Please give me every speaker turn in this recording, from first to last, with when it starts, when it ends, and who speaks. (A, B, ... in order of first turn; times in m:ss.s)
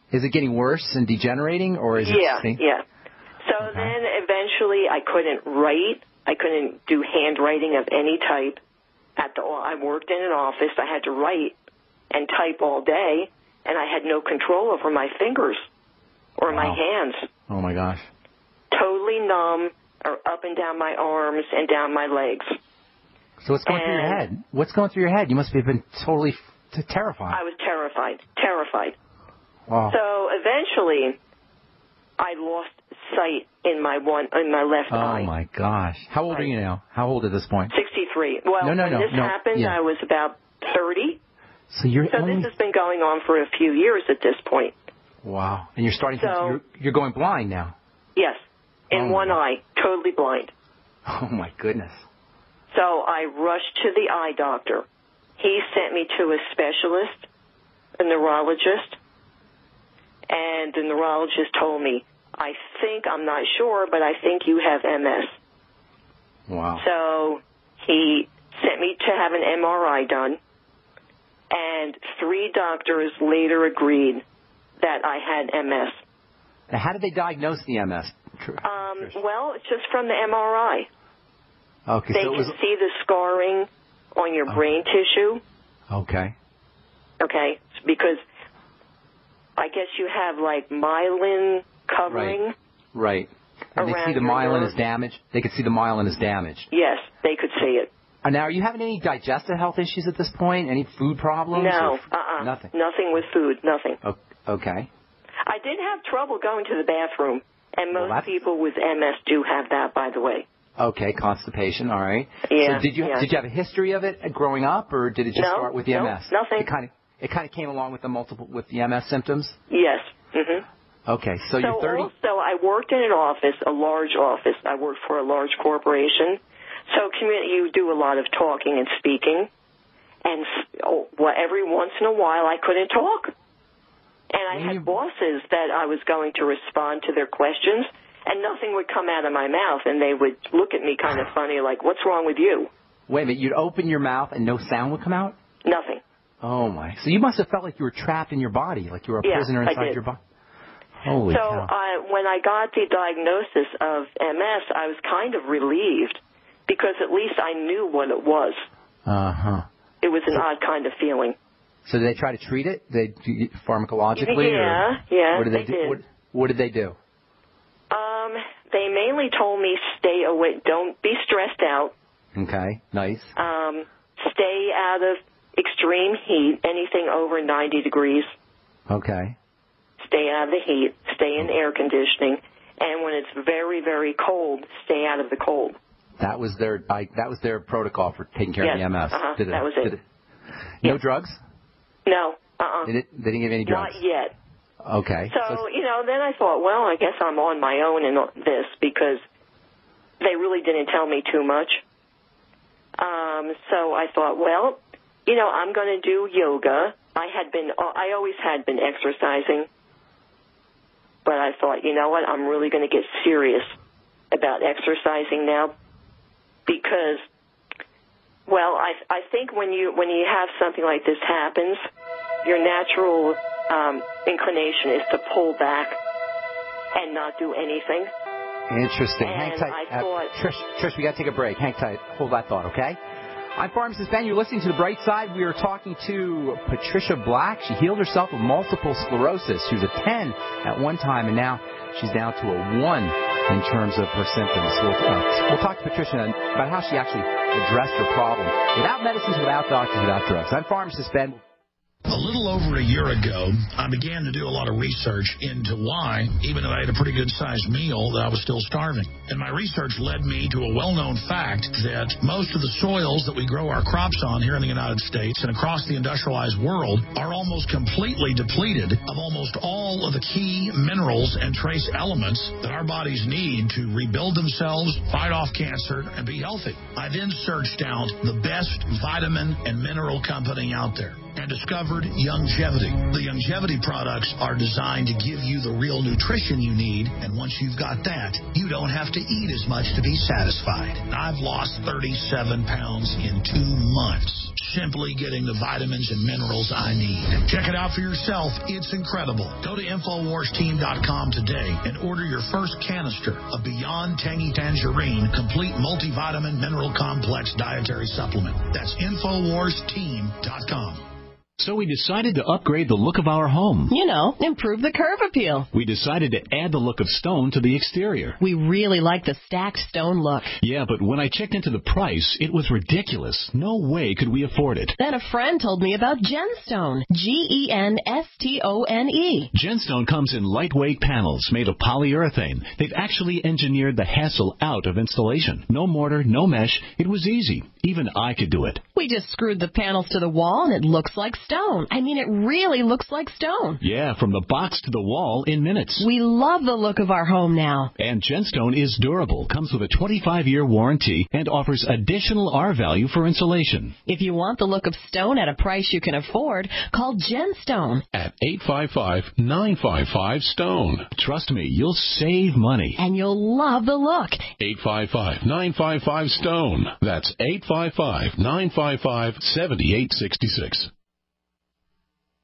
0:00.1-0:02.6 A
0:02.0-0:02.8 B
0:03.4-0:08.6 B
0:03.6-0:03.9 A
0:09.2-0:11.5 B
0:12.1-0:15.6 B
0:16.4-0:17.2 B
0:16.5-0:16.8 A
0:17.5-0:18.0 A
0:18.7-0:22.5 B
0:23.4-0:27.4 A
0:23.6-0:24.2 B
0:27.3-0:28.9 B
0:29.7-0:30.0 A
0:29.9-0:31.2 B
0:32.2-0:35.3 B
0:34.9-0:37.7 A
0:37.7-0:41.2 B
0:38.6-0:39.8 A
0:41.7-0:42.5 A
0:42.1-0:44.7 B
0:45.2-0:47.7 A
0:46.2-0:46.6 B
0:48.9-0:50.5 B
0:48.9-0:49.4 A
0:51.1-0:52.0 A
0:52.7-0:54.8 B
0:55.4-0:57.2 B
0:58.0-0:59.0 B
1:00.3-1:05.3 B
1:06.5-1:06.8 A
1:06.8-1:10.4 B
1:11.5-1:14.2 B
1:14.8-1:16.0 B
1:16.7-1:19.2 A
1:18.6-1:20.9 B
1:21.9-1:22.6 A
1:22.1-1:25.4 B
1:25.9-1:26.3 A
1:27.2-1:28.2 B
1:29.6-1:32.5 B
1:32.1-1:32.4 A
1:32.9-1:36.7 A
1:33.8-1:34.7 B
1:36.7-1:37.9 B
1:38.2-1:42.7 A
1:41.5-1:44.0 B
1:44.0-1:44.9 A
1:45.4-1:50.4 B
1:47.9-1:48.3 A
1:50.8-1:59.6 A
1:52.5-1:53.2 B
1:55.3-1:56.7 B
1:59.7-2:00.6 B
2:01.1-2:02.1 A
2:01.6-2:09.5 B
2:10.2-2:13.3 B
2:14.3-2:22.7 B
2:14.5-2:14.9 A
2:23.1-2:25.4 A
2:25.6-2:26.0 B
2:26.4-2:30.2 A
2:29.2-2:30.0 B
2:31.0-2:31.7 A
2:31.3-2:38.6 B
2:39.0-2:39.6 A
2:40.0-2:41.3 B
2:41.8-2:47.0 A
2:44.2-2:46.0 B
2:47.9-2:51.9 B
2:52.4-2:53.3 A
2:53.4-2:58.3 B
2:58.9-2:59.3 A
3:00.0-3:05.8 B
3:06.2-3:10.0 A
3:08.6-3:09.9 B
3:10.8-3:11.4 A
3:12.0-3:12.9 B
3:12.8-3:14.0 A
3:13.6-3:14.3 B
3:14.8-3:15.6 A
3:15.3-3:19.2 B
3:20.2-3:21.8 B
3:23.0-3:29.7 B
3:31.2-3:33.7 B
3:34.3-3:35.7 B
3:36.6-3:37.2 B
3:38.5-3:41.8 B
3:42.4-3:46.0 B
3:46.9-3:48.1 B
3:48.7-3:53.0 A
3:49.2-3:50.3 B
3:53.6-4:11.4 A
4:12.1-5:11.0 C
5:11.6-5:13.9 D
5:13.9-5:15.7 E
5:15.8-5:18.4 D
5:18.4-5:20.5 E
5:20.6-5:24.9 D
5:25.0-5:29.5 E
5:29.5-5:38.8 D
5:38.9-5:43.8 E
5:43.8-5:46.0 D
5:46.0-5:47.9 E
5:48.0-5:53.9 D
5:54.0-5:58.0 E
5:58.1-6:01.1 F
6:01.3-6:02.9 D
6:03.0-6:04.5 E
6:04.6-6:10.9 F